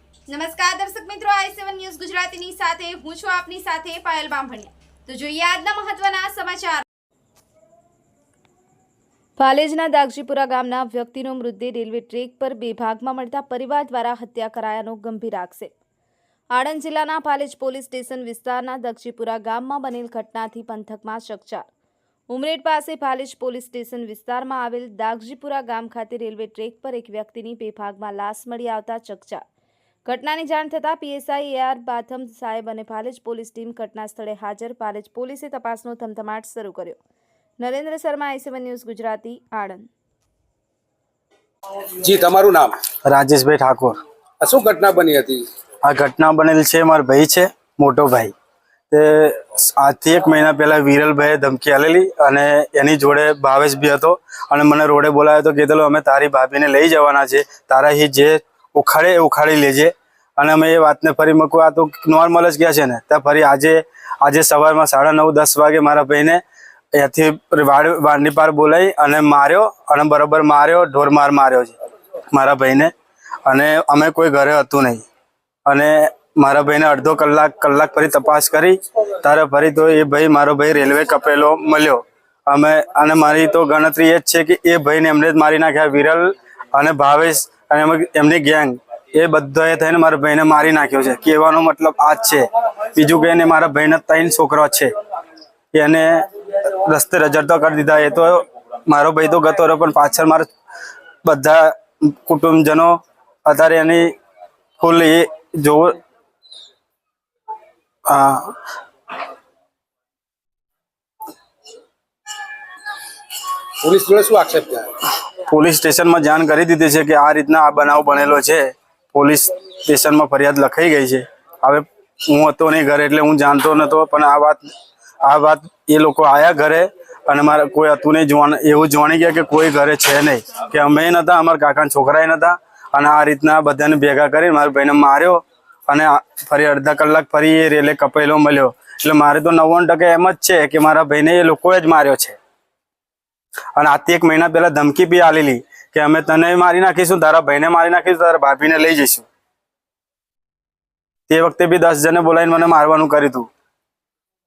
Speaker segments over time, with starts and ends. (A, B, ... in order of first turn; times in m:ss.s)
0:00.3-0:06.8 A
0:09.4-0:15.7 A
0:16.5-0:21.6 A
0:22.3-0:29.4 A
0:30.0-0:37.0 A
0:37.6-0:39.9 A
0:42.0-0:42.7 B
0:43.0-0:44.0 C
0:44.4-0:45.4 B
0:45.8-0:48.3 C
0:48.9-1:06.4 C
1:07.0-1:11.8 C
1:12.3-1:12.9 C
1:13.5-1:15.0 C
1:15.7-1:34.9 C
1:35.7-1:40.5 C
1:41.2-1:44.1 C
1:44.8-1:46.0 C
1:48.1-1:48.6 C
1:53.8-1:54.9 B
1:55.5-2:04.6 C
2:05.2-2:22.4 C
2:23.8-2:29.3 C
2:31.3-2:33.5 C